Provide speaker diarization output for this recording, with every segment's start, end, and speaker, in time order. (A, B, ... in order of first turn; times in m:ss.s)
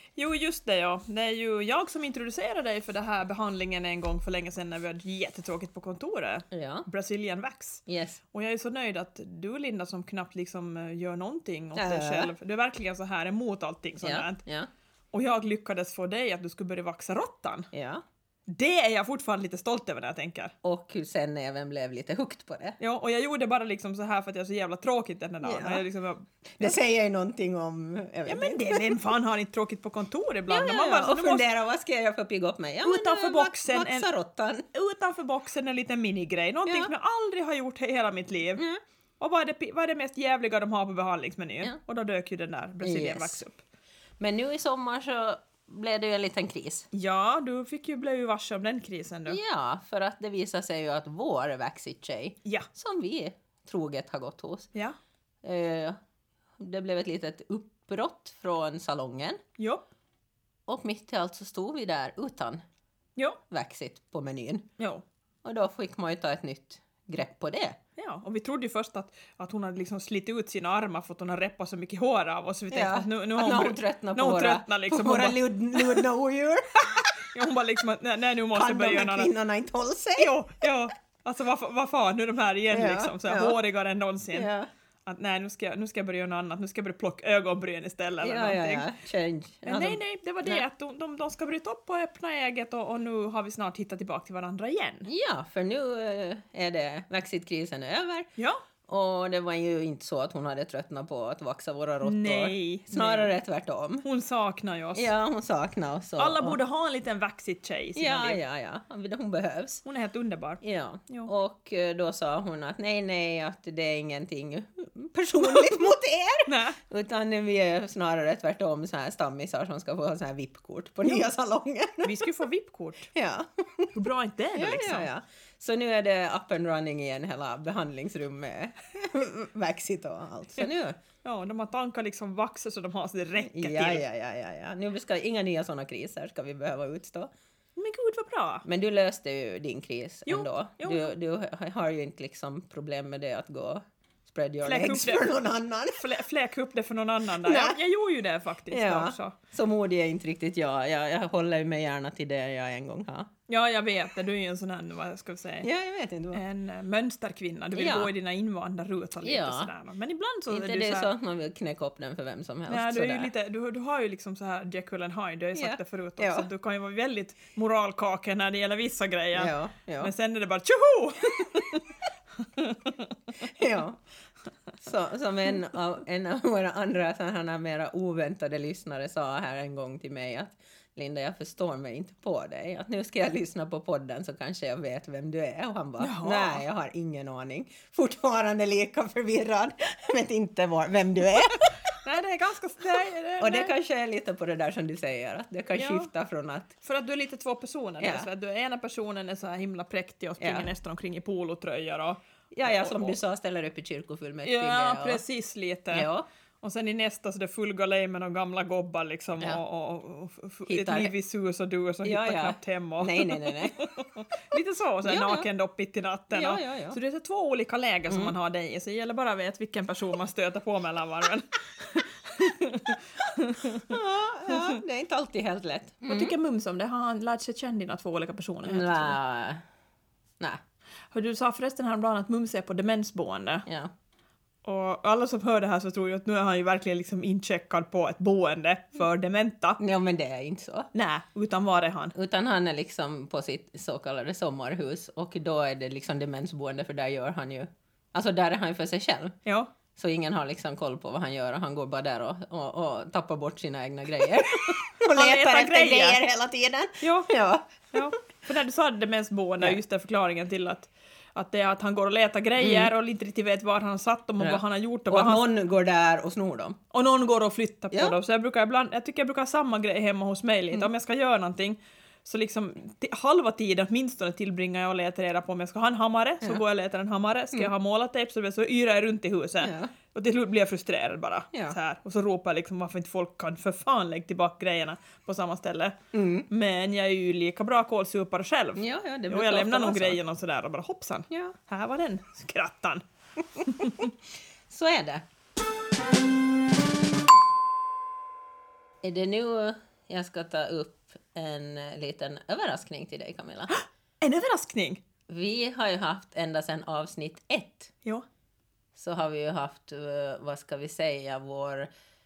0:00.2-0:14.4 A
0:06.5-0:06.9 B
0:07.9-0:08.2 B
0:11.7-0:12.3 B
0:14.0-0:14.7 B
0:15.1-0:17.7 A
0:17.7-0:18.0 B
0:18.5-0:20.5 A
0:20.6-0:22.8 B
0:22.8-0:26.7 A
0:25.4-0:25.8 B
0:26.4-0:29.0 B
0:28.2-0:31.5 A
0:30.5-0:34.6 B
0:32.8-0:34.1 A
0:34.7-0:38.6 A
0:36.6-0:36.9 B
0:39.2-0:43.6 A
0:42.8-0:43.4 B
0:44.2-0:46.9 B
0:46.9-0:49.4 A
0:49.3-0:54.7 B
0:55.4-0:56.0 B
0:56.6-0:59.4 B
0:59.6-0:59.8 A
1:00.7-1:02.6 B
1:03.5-1:04.7 B
1:05.4-1:07.8 B
1:08.0-1:16.0 A
1:12.7-1:17.2 B
1:16.9-1:19.3 A
1:18.5-1:20.3 B
1:20.2-1:24.5 A
1:22.7-1:23.6 B
1:24.3-1:24.7 B
1:25.0-1:28.9 A
1:28.2-1:30.6 B
1:29.6-1:35.1 A
1:35.0-1:38.3 B
1:38.9-1:44.0 B
1:42.0-1:43.3 A
1:44.0-1:45.1 A
1:44.9-1:46.6 B
1:46.2-1:48.4 A
1:48.0-1:49.8 B
1:49.8-1:51.3 A
1:50.6-2:02.2 B
1:56.4-1:56.8 A
2:02.0-2:03.1 A
2:03.1-2:03.9 B
2:03.9-2:05.1 A
2:04.5-2:11.0 B
2:11.2-2:14.0 A
2:13.5-2:17.3 B
2:17.8-2:18.6 A
2:18.6-2:26.0 B
2:20.3-2:21.1 A
2:24.6-2:25.2 A
2:26.0-2:29.4 A
2:27.4-2:27.8 B
2:28.7-2:33.3 B
2:33.5-2:35.7 A
2:35.6-2:36.4 B
2:36.3-2:41.1 A
2:37.7-2:38.1 B
2:39.2-2:39.7 B
2:40.5-2:43.3 B
2:42.7-2:51.9 A
2:45.5-2:46.5 B
2:49.3-2:50.1 B
2:52.5-2:53.1 A
2:53.4-2:54.0 B
2:54.8-3:11.8 B
3:06.0-3:06.6 A
3:11.9-3:13.7 A
3:13.4-3:16.7 B
3:15.8-3:16.1 A
3:16.8-3:23.2 A
3:18.0-3:18.3 B
3:20.4-3:20.7 B
3:22.5-3:25.2 B
3:24.4-3:26.1 A
3:25.9-3:26.3 B
3:26.6-3:44.0 A
3:30.7-3:31.1 B
3:32.0-3:33.9 B
3:35.0-3:35.5 B
3:36.3-3:37.0 B
3:38.1-3:38.3 B
3:43.8-3:46.3 B
3:44.5-3:44.8 A
3:46.1-3:49.2 A
3:48.6-3:49.6 B
3:51.1-3:53.6 A
3:53.6-3:53.9 B
3:54.6-3:59.8 A
3:59.8-4:00.9 B
4:00.9-4:02.1 A
4:02.1-4:09.4 B
4:09.4-4:09.7 A
4:10.0-4:18.1 B
4:14.7-4:16.2 A
4:17.0-4:17.3 A
4:17.9-4:25.4 A
4:22.6-4:22.9 B
4:24.4-4:26.8 B
4:26.9-4:46.0 A
4:39.6-4:39.9 B
4:46.1-4:46.5 B
4:46.5-4:53.0 A
4:48.8-4:50.2 B
4:51.3-4:51.6 B
4:53.6-4:54.1 A
4:53.6-4:54.1 B
4:54.7-4:55.2 B
4:59.0-5:03.7 B
5:03.7-5:05.0 A
5:05.3-5:07.9 B
5:08.9-5:11.9 B